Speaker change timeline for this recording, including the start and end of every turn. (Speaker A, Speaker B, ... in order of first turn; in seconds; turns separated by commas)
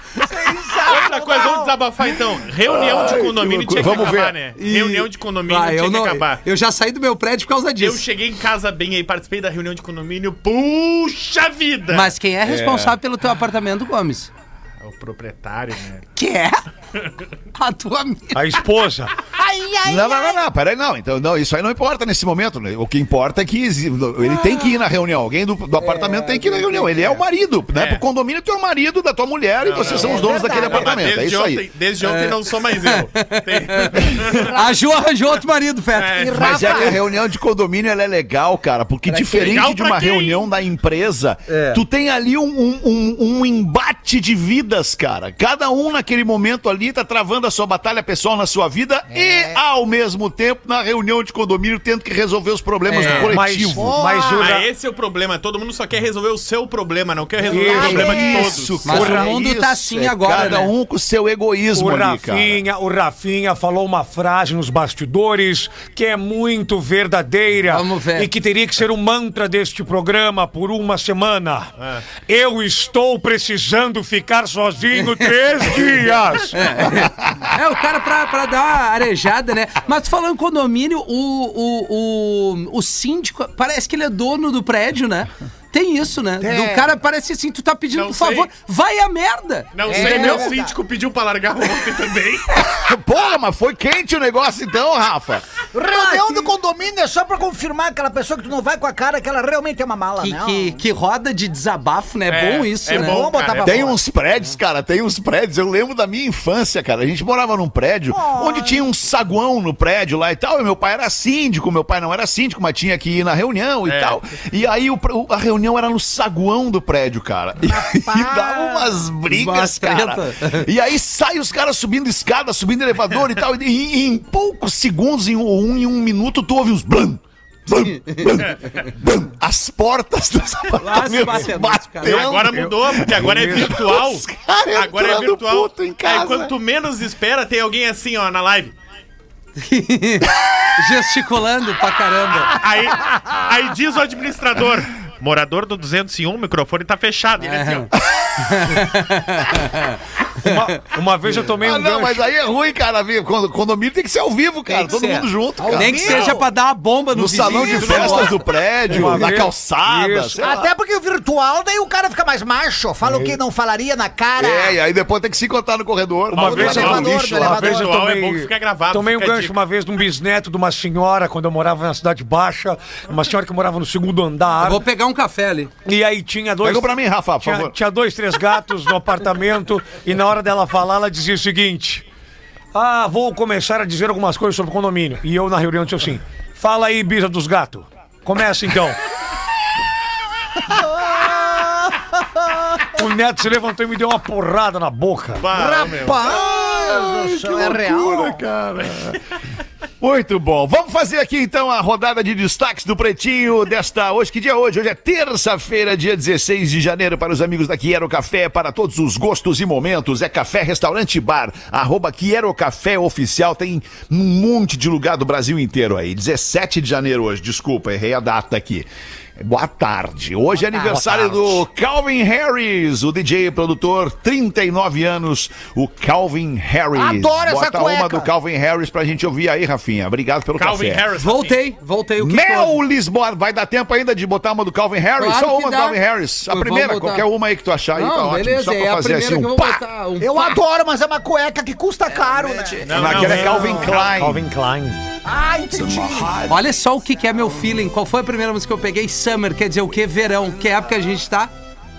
Speaker A: 0.2-1.8, Speaker B: 0.8-6.4, Speaker C: 2.6-4.4, Speaker D: 4.6-8.0, Speaker B: 7.8-12.1, Speaker D: 11.9-14.3, Speaker C: 12.4-13.0, Speaker B: 14.8-16.1, Speaker D: 16.2-16.6, Speaker D: 17.6-18.6, Speaker E: 18.3-19.1, Speaker A: 19.4-20.4, Speaker C: 19.8-31.6, Speaker D: 25.8-27.2, Speaker B: 27.7-28.0, Speaker B: 29.6-34.6, Speaker A: 29.8-31.1, Speaker D: 32.0-36.3, Speaker A: 34.4-34.8, Speaker B: 35.9-37.0, Speaker A: 36.2-37.0, Speaker C: 36.4-53.9, Speaker D: 39.1-39.6, Speaker B: 39.3-40.5, Speaker D: 41.5-41.8, Speaker A: 49.1-49.6, Speaker D: 52.9-53.4, Speaker E: 53.1-54.7, Speaker A: 53.7-54.6, Speaker B: 54.4-59.0, Speaker E: 57.5-58.4, Speaker A: 57.5-58.5, Speaker C: 57.6-62.6, Speaker D: 58.9-60.7, Speaker E: 58.9-59.3, Speaker E: 61.8-71.7, Speaker D: 67.7-68.3, Speaker B: 71.8-72.0, Speaker E: 72.3-76.6, Speaker D: 75.0-75.3, Speaker D: 76.5-90.5, Speaker A: 86.4-86.9, Speaker B: 88.0-88.5, Speaker B: 89.8-92.7, Speaker A: 89.9-90.7, Speaker C: 92.8-95.5, Speaker A: 95.7-100.8, Speaker D: 95.9-96.5, Speaker D: 100.2-103.2, Speaker B: 102.3-104.0, Speaker A: 102.9-104.0, Speaker C: 103.6-136.5, Speaker A: 108.1-108.9, Speaker B: 113.8-114.2, Speaker A: 117.6-119.0, Speaker D: 119.3-120.7, Speaker D: 127.8-128.4, Speaker D: 130.8-132.3, Speaker B: 132.0-138.7, Speaker E: 132.4-133.8, Speaker D: 139.6-142.6, Speaker B: 142.6-147.9, Speaker D: 147.4-150.8, Speaker C: 148.1-148.8, Speaker E: 150.4-152.2, Speaker C: 151.3-156.3, Speaker D: 154.7-158.4, Speaker A: 155.6-156.5, Speaker C: 157.1-160.7, Speaker A: 157.4-158.4, Speaker E: 158.9-160.4, Speaker A: 160.4-164.8, Speaker E: 163.1-163.3, Speaker C: 164.4-167.2, Speaker B: 166.3-169.6, Speaker E: 166.4-174.8, Speaker A: 166.4-168.0, Speaker D: 174.6-175.7, Speaker E: 175.8-176.9, Speaker C: 176.6-177.8, Speaker E: 177.4-182.0, Speaker E: 182.7-189.0, Speaker A: 190.7-192.6, Speaker E: 192.9-195.4, Speaker B: 195.4-196.2, Speaker A: 195.5-198.5, Speaker C: 196.2-199.2, Speaker C: 200.0-231.1, Speaker E: 220.9-221.5, Speaker A: 226.9-228.3, Speaker B: 230.6-231.6, Speaker D: 231.2-232.8, Speaker C: 232.2-239.9, Speaker D: 235.2-237.3, Speaker D: 237.9-240.6, Speaker A: 240.2-243.3, Speaker C: 242.4-244.5, Speaker B: 242.8-244.0, Speaker E: 243.0-245.0, Speaker A: 245.2-246.4, Speaker C: 245.7-246.7, Speaker D: 246.5-251.5